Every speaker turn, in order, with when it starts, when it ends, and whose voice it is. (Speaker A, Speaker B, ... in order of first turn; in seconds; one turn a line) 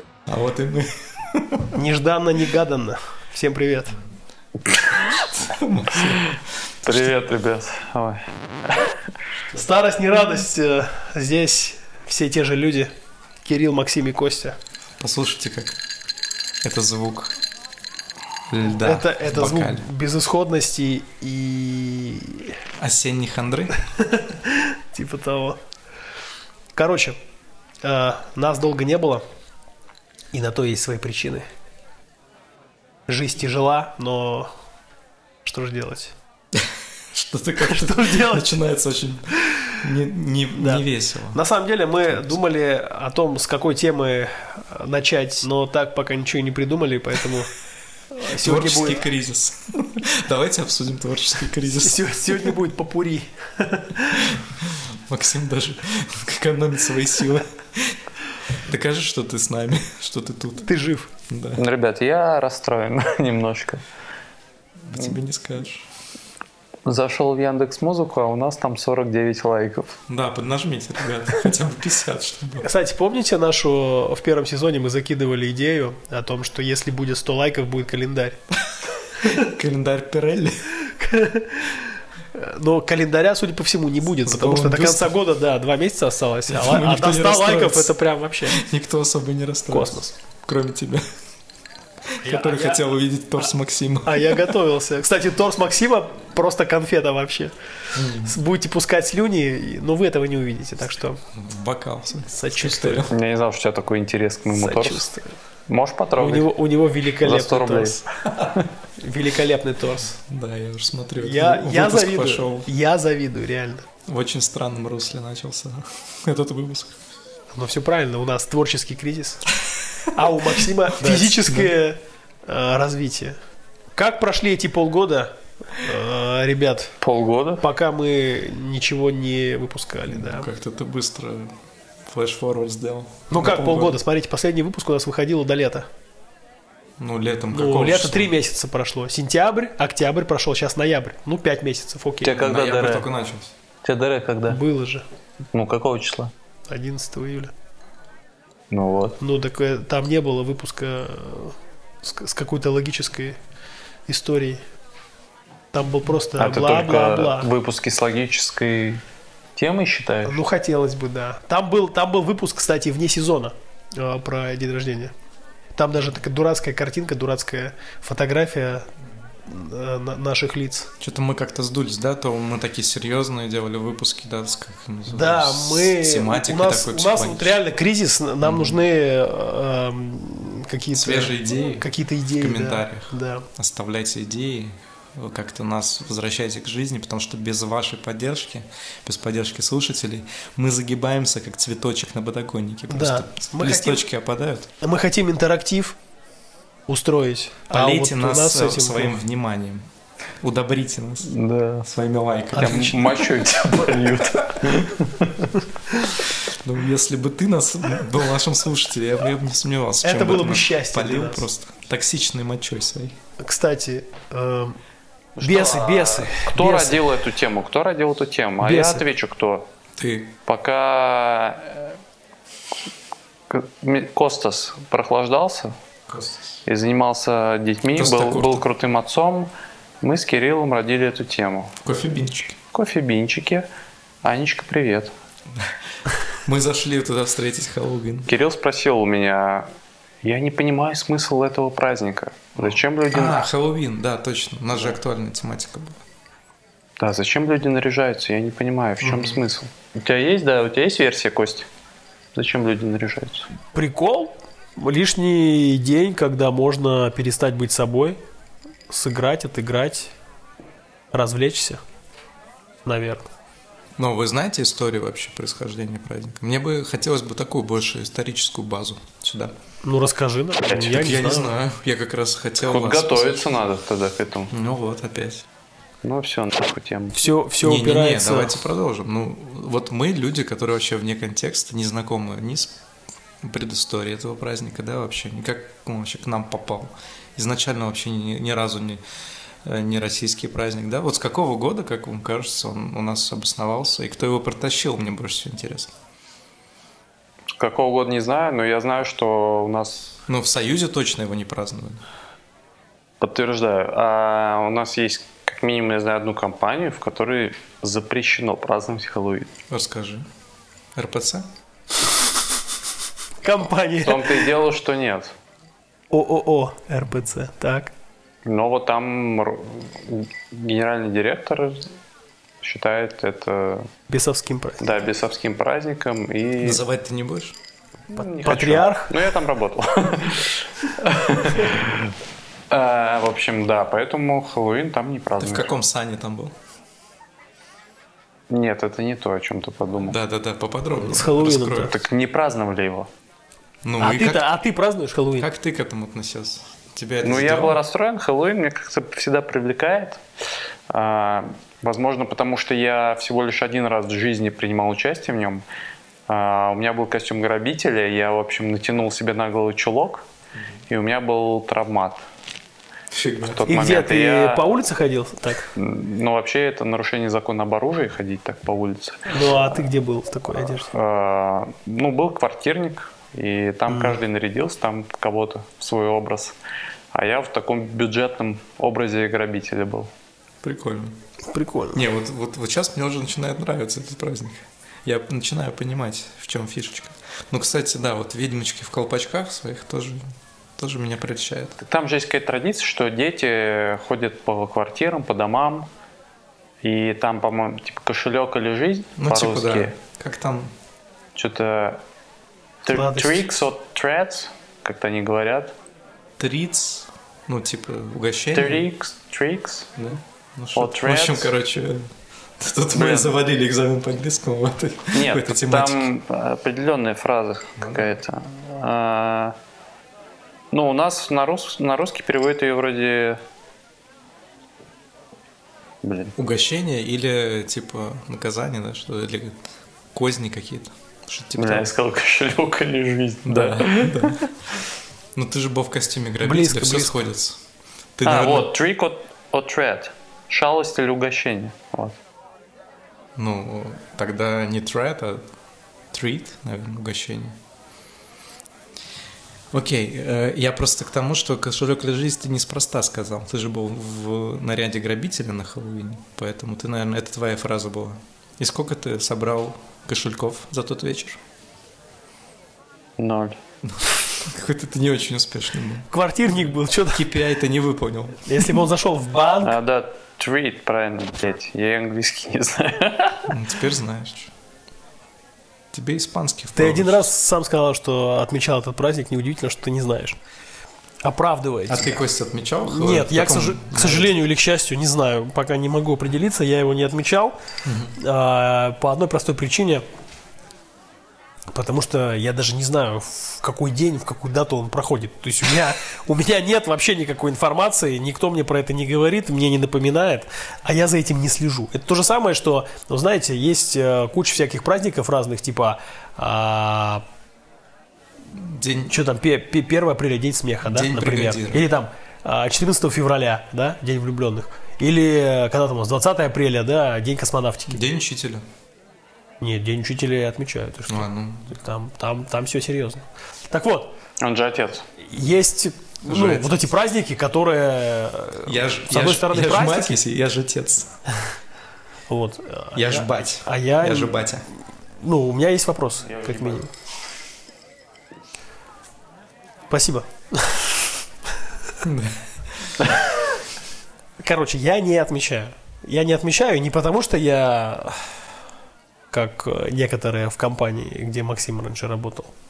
Speaker A: 0.3-1.8
Speaker B: 1.7-3.9
Speaker A: 5.2-6.3
Speaker C: 6.8-8.9
Speaker A: 6.9-7.1
Speaker B: 9.5-12.9
Speaker B: 13.4-14.6
Speaker A: 15.0-15.8
Speaker A: 16.6-17.3
Speaker A: 18.5-19.8
Speaker B: 18.8-22.5
Speaker A: 22.8-23.8
Speaker B: 23.9-25.6
Speaker B: 26.7-27.1
Speaker B: 27.8-29.2
Speaker B: 30.3-31.4
Speaker B: 33.1-34.5
Speaker B: 35.4-36.1
Speaker A: 36.5-41.4
Speaker B: 37.6-38.6
Speaker B: 40.5-47.5
Speaker B: 48.1-49.1
Speaker A: 48.3-52.6
Speaker B: 51.7-54.3
Speaker A: 54.2-58.0
Speaker A: 58.5-60.7
Speaker B: 60.6-61.1
Speaker A: 61.3-61.6
Speaker C: 61.5-63.8
Speaker A: 64.8-65.9
Speaker C: 66.8-69.9
Speaker A: 70.1-72.7
Speaker B: 72.6-78.4
Speaker A: 79.2-80.5
Speaker B: 81.0-88.6
Speaker A: 84.1-85.2
Speaker A: 86.5-91.0
Speaker B: 89.7-90.1
Speaker A: 92.2-94.5
Speaker B: 92.2-92.8
Speaker B: 94.0-97.5
Speaker A: 97.9-98.4
Speaker B: 98.2-101.2
Speaker A: 101.3-103.1
Speaker B: 102.3-103.1
Speaker C: 103.1-105.1
Speaker B: 104.5-105.3
Speaker C: 105.7-106.5
Speaker B: 106.2-108.0
Speaker C: 107.2-108.7
Speaker B: 109.0-110.2
Speaker A: 110.2-112.7
Speaker B: 111.2-113.8
Speaker A: 114.1-116.9
Speaker B: 117.5-119.5
Speaker B: 120.1-123.3
Speaker A: 120.9-121.8
Speaker B: 123.9-126.9
Speaker C: 127.0-127.6
Speaker B: 127.6-130.5
Speaker A: 130.1-131.5
Speaker A: 132.1-134.0
Speaker B: 133.3-135.8
Speaker A: 137.0-138.3
Speaker B: 137.5-142.4
Speaker C: 142.2-143.1
Speaker A: 142.3-143.5
Speaker C: 143.8-144.6
Speaker B: 144.5-145.0
Speaker C: 145.5-146.3
Speaker B: 146.7-147.5
Speaker C: 148.7-149.2
Speaker B: 149.2-153.4
Speaker B: 154.1-154.6
Speaker B: 155.7-157.5
Speaker C: 156.4-159.0
Speaker C: 159.6-160.4
Speaker B: 160.2-165.1
Speaker B: 165.7-168.9
Speaker B: 169.4-170.9
Speaker A: 171.0-177.6
Speaker B: 175.1-183.4
Speaker A: 178.4-178.8
Speaker A: 180.9-194.7
Speaker B: 192.9-194.1
Speaker B: 194.8-195.9
Speaker B: 196.9-199.2
Speaker A: 197.7-199.8
Speaker A: 200.4-201.3
Speaker C: 201.2-201.9
Speaker A: 201.9-204.2
Speaker C: 202.5-205.5
Speaker A: 206.6-213.1
Speaker B: 210.0-211.5
Speaker B: 213.4-214.7
Speaker C: 215.4-219.6
Speaker B: 215.4-217.0
Speaker B: 218.6-219.1
Speaker A: 220.0-220.3
Speaker C: 220.4-221.9
Speaker C: 223.5-225.7
Speaker A: 226.1-226.6
Speaker C: 226.7-229.5
Speaker A: 227.9-228.6
Speaker C: 230.0-231.7
Speaker A: 231.8-232.5
Speaker C: 232.7-233.7
Speaker C: 234.2-235.1
Speaker A: 236.4-238.3
Speaker C: 238.2-239.7
Speaker C: 240.2-243.5
Speaker A: 242.6-246.0
Speaker C: 247.0-251.7
Speaker A: 249.0-249.4
Speaker C: 252.3-253.4
Speaker B: 253.7-258.2
Speaker B: 258.9-260.1
Speaker B: 261.1-261.8
Speaker B: 262.9-263.3
Speaker A: 264.0-269.5
Speaker B: 269.8-271.5
Speaker C: 270.7-270.9
Speaker A: 270.8-273.6
Speaker C: 272.6-274.5
Speaker A: 274.5-275.4
Speaker C: 276.0-277.3
Speaker B: 277.1-278.6
Speaker A: 277.6-282.8
Speaker A: 283.4-289.0
Speaker A: 289.6-295.9
Speaker C: 297.6-300.2
Speaker A: 300.3-302.0
Speaker C: 303.2-309.5
Speaker A: 309.7-310.2
Speaker A: 310.9-311.5
Speaker B: 313.4-314.5
Speaker C: 314.0-315.3
Speaker B: 316.1-317.9
Speaker C: 318.4-321.8
Speaker C: 322.6-323.9
Speaker B: 324.1-324.9
Speaker C: 324.8-326.8
Speaker A: 326.6-327.6
Speaker C: 328.1-332.1
Speaker B: 328.2-329.1
Speaker C: 332.7-335.7
Speaker A: 335.4-336.5
Speaker C: 338.5-340.1
Speaker A: 340.0-342.0
Speaker B: 340.9-341.9
Speaker C: 341.8-343.1
Speaker A: 343.8-344.5
Speaker B: 344.0-345.5
Speaker A: 345.4-347.8
Speaker C: 347.2-350.2
Speaker C: 350.9-355.6
Speaker C: 356.3-360.2
Speaker C: 360.9-362.2
Speaker A: 363.1-363.6
Speaker C: 363.4-364.6
Speaker B: 363.6-365.7
Speaker C: 365.8-369.3
Speaker B: 369.3-370.9
Speaker C: 370.8-376.6
Speaker B: 373.9-374.2
Speaker C: 377.1-380.1
Speaker A: 380.6-381.2
Speaker B: 381.5-382.0
Speaker A: 381.9-391.8
Speaker C: 391.8-395.9
Speaker C: 396.8-399.9
Speaker A: 399.2-400.7
Speaker C: 401.3-402.0
Speaker C: 402.8-405.7
Speaker B: 402.9-403.4
Speaker A: 406.4-408.9
Speaker C: 408.5-409.9
Speaker A: 410.0-416.1
Speaker C: 410.7-411.5
Speaker C: 412.9-413.4
Speaker C: 415.1-419.5
Speaker C: 420.7-423.4
Speaker C: 426.0-426.3
Speaker A: 426.4-429.6
Speaker A: 430.1-431.9
Speaker C: 431.6-434.4
Speaker A: 433.4-434.5
Speaker A: 435.3-437.6
Speaker B: 436.4-437.3
Speaker A: 438.2-438.7
Speaker C: 438.2-442.1
Speaker A: 443.4-445.4
Speaker A: 446.1-447.5
Speaker A: 449.7-461.4
Speaker C: 463.2-463.5
Speaker A: 463.8-466.1
Speaker B: 466.1-467.3
Speaker A: 467.1-468.8
Speaker B: 468.4-469.8
Speaker C: 469.6-473.5
Speaker A: 473.5-474.5
Speaker A: 475.9-477.3
Speaker B: 476.7-480.4
Speaker B: 481.2-482.2
Speaker A: 481.9-484.3
Speaker B: 482.8-487.6
Speaker A: 487.8-488.1
Speaker B: 488.1-490.0
Speaker B: 491.7-507.2
Speaker A: 508.5-509.1
Speaker B: 509.1-518.0
Speaker A: 510.8-511.9
Speaker A: 517.9-518.6
Speaker B: 519.6-524.1
Speaker A: 521.1-521.8
Speaker C: 524.4-525.0
Speaker B: 525.2-530.2
Speaker A: 526.2-526.9
Speaker A: 528.6-531.1
Speaker B: 532.3-534.5
Speaker A: 532.9-534.6
Speaker B: 535.2-536.9
Speaker C: 536.2-536.8
Speaker B: 539.9-540.9
Speaker A: 542.0-543.0
Speaker B: 544.4-548.4
Speaker B: 549.3-552.5